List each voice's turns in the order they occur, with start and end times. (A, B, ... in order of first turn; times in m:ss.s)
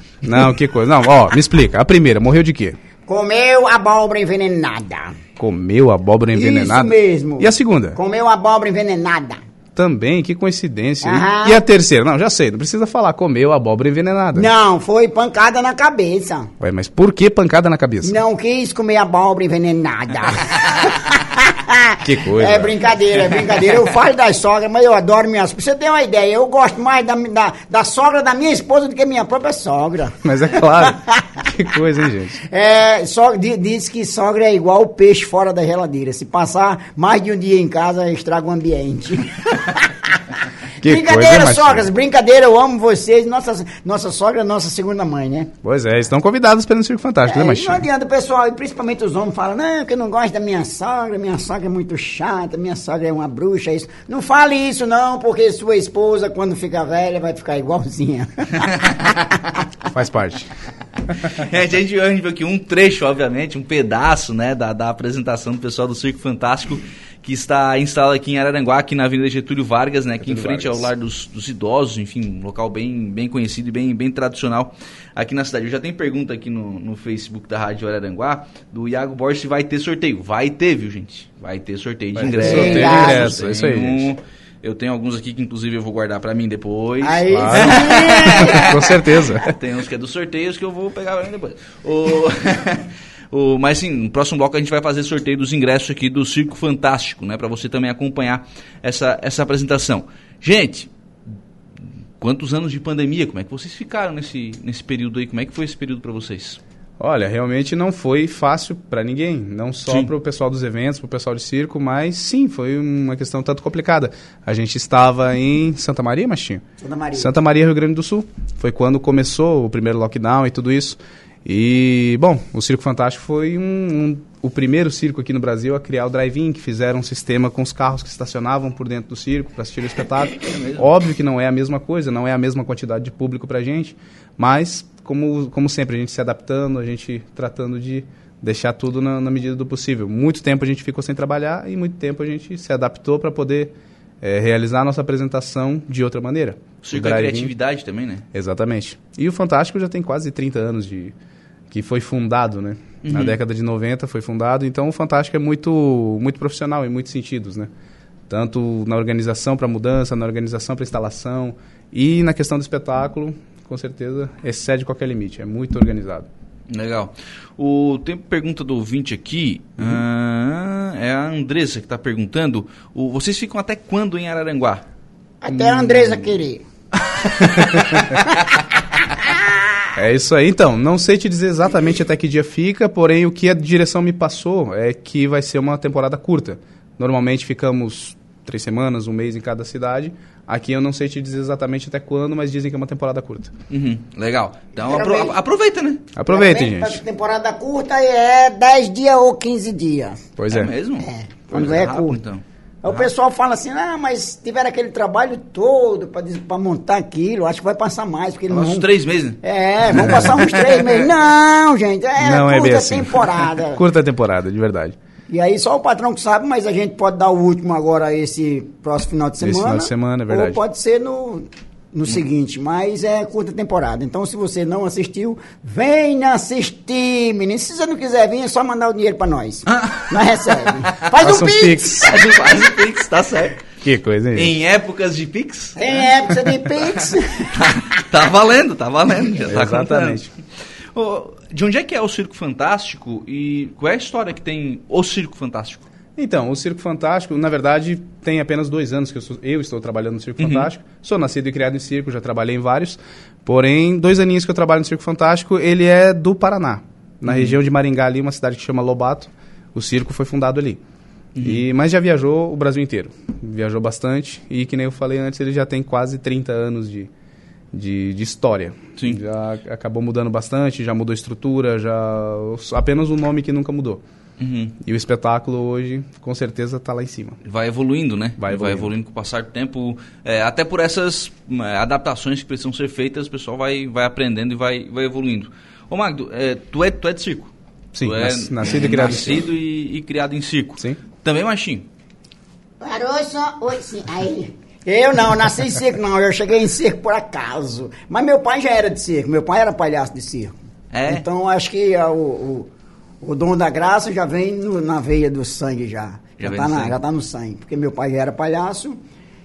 0:00.2-0:02.8 A
0:03.1-0:05.1 B
0:05.4-0:08.0 A
0:06.3-0:09.4 B
0:09.8-0:14.5 A
0:11.0-0:11.6 B
0:14.3-0:16.5 B
0:16.6-0:18.2 A
0:18.0-0:31.2 B
0:22.0-0:22.8 A
0:30.2-0:32.4 A
0:32.5-0:39.9 B
0:40.8-0:41.9 A
0:40.8-0:45.5 B
0:45.6-0:47.8 A
0:47.3-0:59.4 B
0:59.9-1:00.5 A
1:01.2-1:28.9 C
1:10.2-1:10.9 A
1:22.2-1:24.1 A
1:22.4-1:23.4 B
1:27.0-1:29.0 B
1:27.3-1:29.5 A
1:29.4-1:40.9 C
1:42.2-1:46.6 C
1:47.0-2:27.5 A
1:56.8-1:57.3 B
2:10.4-2:10.9 C
2:26.8-2:28.2 C
2:28.3-2:31.2 A
2:31.7-2:37.7 A
2:33.0-2:33.4 C
2:38.3-2:46.3 A
2:46.7-2:54.8 C
2:55.4-2:56.6 B
2:55.5-2:56.4 A
2:57.4-2:58.2 A
2:59.2-2:59.5 B
3:00.0-3:13.5 A
3:13.7-3:16.0 C
3:14.8-3:15.4 B
3:16.2-3:17.0 A
3:16.3-3:20.2 B
3:20.4-3:20.7 A
3:20.5-3:23.1 C
3:21.0-3:22.2 B
3:22.8-3:28.9 B
3:28.5-3:29.4 C
3:29.4-3:33.8 B
3:29.9-3:31.0 C
3:32.2-3:35.0 A
3:35.3-3:52.2 B
3:39.4-3:40.6 A
3:49.7-3:50.1 C
3:51.2-3:52.1 A
3:51.9-3:53.7 C
3:53.8-3:54.6 A
3:54.4-3:56.1 C
3:55.8-3:57.5 B
3:57.5-4:00.2 C
3:59.5-4:00.3 A
4:00.9-4:05.9 C
4:06.2-4:20.8 A
4:10.4-4:10.7 C
4:17.3-4:17.6 C
4:21.4-4:21.6 C
4:21.4-4:27.1 A
4:27.7-4:34.0 A
4:34.4-4:34.8 C
4:34.8-4:37.4 A
4:37.4-4:51.9 C
4:38.4-4:38.9 A
4:47.9-4:49.5 A
4:52.8-5:00.5 B
5:00.9-5:01.2 C
5:01.1-5:02.7 B
5:03.2-5:09.0 B
5:06.4-5:07.0 C